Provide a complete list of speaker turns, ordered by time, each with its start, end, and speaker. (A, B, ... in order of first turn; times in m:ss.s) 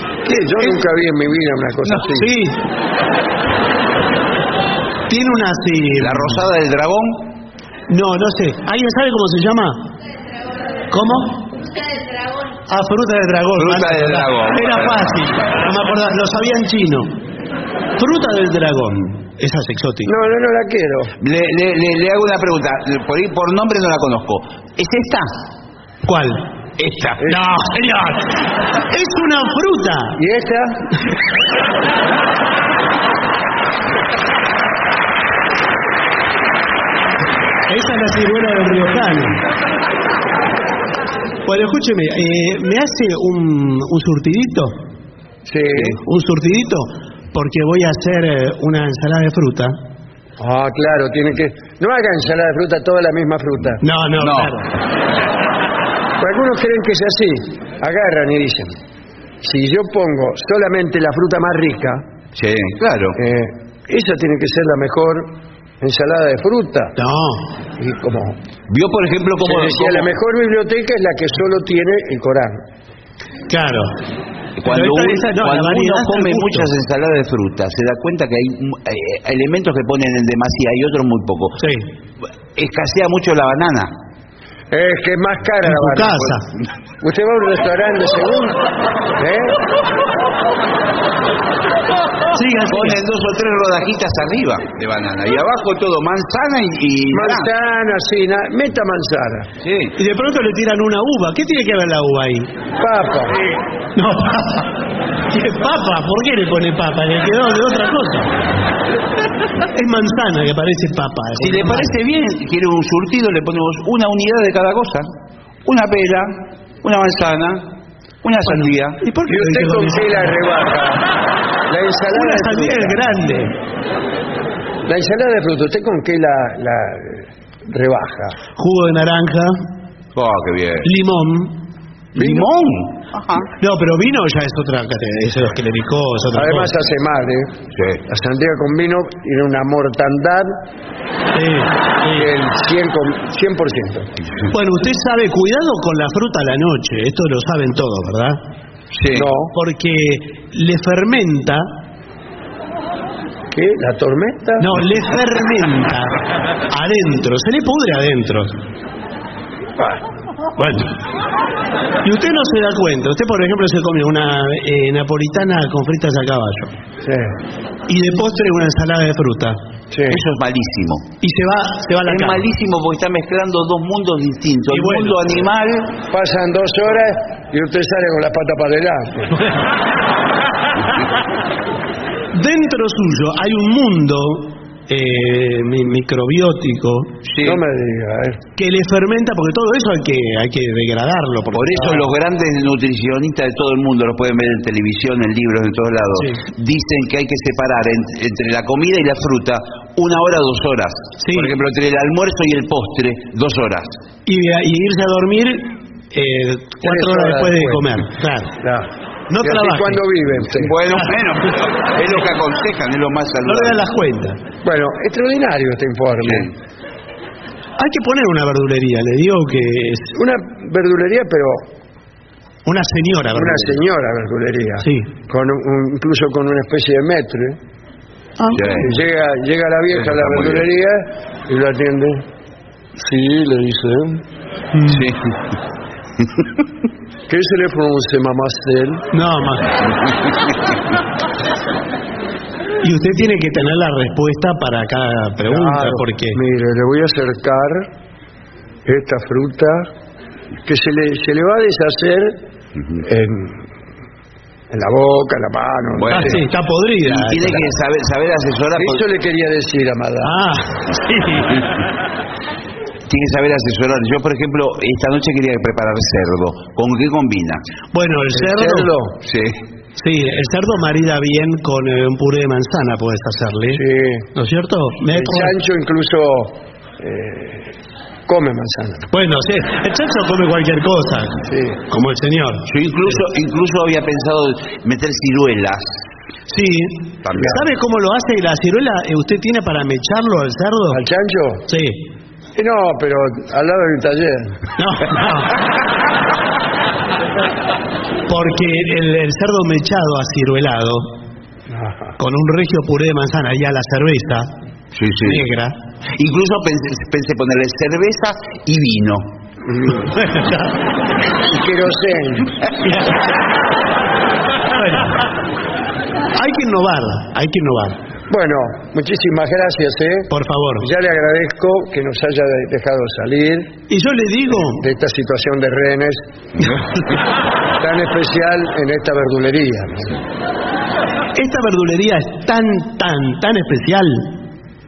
0:00.2-0:02.3 A
0:01.9-0:02.6 B
0:05.1-0:06.4 B
0:06.0-0:07.4 C
0:07.9-0:09.9 B
0:10.9-0:11.8 B
0:12.7-0:17.2 B
0:13.6-0:15.2 C
0:18.0-0:20.1 B
0:20.0-0:21.2 A
0:21.2-0:25.3 C
0:26.0-0:26.5 B
0:26.8-0:27.2 C
0:27.2-0:30.2 B
0:30.2-0:30.9 A
0:37.7-0:39.5 B
0:41.5-0:44.8 B
0:45.5-0:46.0 A
0:45.8-0:49.8 B
0:50.4-0:53.8 A
0:53.8-0:54.7 B
0:54.2-0:54.6 C
0:56.2-0:58.8 A
0:59.4-1:02.0 A
1:02.4-1:03.2 C
1:03.2-1:07.0 A
1:07.0-1:07.5 B
1:07.8-1:08.4 A
1:08.7-1:10.1 C
1:09.4-1:12.6 A
1:13.5-1:14.0 B
1:14.6-1:21.6 C
1:14.7-1:16.7 B
1:21.6-1:21.9 B
1:22.6-1:23.9 C
1:24.7-1:26.4 A
1:25.6-1:26.5 B
1:27.0-1:29.6 A
1:32.3-1:33.0 B
1:32.7-1:37.5 C
1:37.1-1:39.5 A
1:39.6-1:40.0 C
1:40.0-1:42.5 B
1:42.8-1:43.4 A
1:44.0-1:48.4 B
1:49.7-1:51.9 B
1:51.4-1:55.1 C
1:55.6-1:57.7 C
1:58.2-1:59.0 C
1:58.5-2:00.4 B
1:59.3-2:01.1 A
2:01.7-2:03.0 A
2:02.1-2:03.6 B
2:04.9-2:08.4 A
2:08.6-2:09.6 B
2:10.2-2:10.9 C
2:10.8-2:11.6 B
2:12.2-2:13.5 C
2:12.2-2:12.5 A
2:13.6-2:16.7 B
2:16.3-2:17.5 A
2:17.7-2:18.0 C
2:18.1-2:20.6 A
2:21.3-2:22.3 B
2:22.1-2:24.1 A
2:24.5-2:28.4 B
2:28.9-2:29.3 C
2:29.1-2:29.5 A
2:29.5-2:31.7 B
2:33.5-2:34.8 A
2:34.6-2:38.6 B
2:39.8-2:40.0 A
2:40.6-2:41.0 B
2:42.0-2:46.7 B
2:47.0-2:47.3 A
2:47.9-2:49.6 B
2:49.9-2:50.2 A
2:50.1-2:51.1 C
2:51.2-2:52.4 B
2:52.1-2:56.0 C
2:54.7-2:55.4 B
2:56.1-2:59.4 A
3:02.3-3:07.2 B
3:07.2-3:07.6 C
3:07.4-3:08.4 A
3:08.6-3:12.1 B
3:11.5-3:24.0 C
3:16.2-3:16.4 B
3:21.2-3:21.5 B
3:24.3-3:28.6 B
3:26.8-3:28.0 A
3:28.6-3:30.8 A
3:29.3-3:30.0 B
3:30.5-3:33.8 C
3:33.4-3:34.4 B
3:34.6-3:36.5 A
3:37.8-3:40.1 B
3:40.1-3:41.7 A
3:42.7-3:43.8 B
3:43.4-3:47.6 A
3:44.8-3:45.1 B
3:48.4-3:48.8 B
3:48.5-3:48.9 C
3:48.7-3:52.2 A
3:50.1-3:50.6 C
3:53.0-3:54.2 A
3:54.7-3:55.0 B
3:54.9-3:55.4 C
3:57.3-3:59.1 A
3:59.1-3:59.8 B
4:02.8-4:06.4 B
4:05.5-4:07.9 A
4:08.8-4:09.9 A
4:10.6-4:12.4 A
4:13.0-4:13.7 A
4:14.7-4:16.4 A
4:16.0-4:16.5 C
4:16.1-4:17.7 B
4:17.0-4:19.0 C
4:18.8-4:20.3 A
4:20.2-4:21.7 B
4:23.1-4:27.6 C
4:27.9-4:28.9 B
4:28.3-4:29.2 A
4:29.2-4:29.6 C
4:30.0-4:33.8 B
4:33.7-4:34.3 A
4:34.4-4:35.5 B
4:35.1-4:37.8 A
4:38.3-4:39.1 A
4:39.1-4:42.7 B
4:41.4-4:41.8 A
4:42.7-4:45.9 C
4:46.5-4:51.0 B
4:47.2-4:47.6 C
4:50.9-4:51.6 A
4:51.7-4:52.0 B
4:52.6-4:54.6 A
4:54.8-4:55.6 B
4:58.3-5:01.2 B
5:01.7-5:02.1 A
5:02.2-5:04.5 B
5:04.9-5:05.5 C
5:05.2-5:05.8 B
5:06.2-5:09.3 C
5:09.7-5:10.1 A
5:09.9-5:10.8 B
5:11.5-5:12.5 A
5:12.8-5:13.2 B
5:14.7-5:15.2 B
5:16.4-5:18.0 B
5:18.3-5:23.7 A
5:20.3-5:20.9 B
5:23.9-5:24.8 B
5:24.5-5:26.7 A
5:27.8-5:30.2 A
5:31.4-5:34.4 B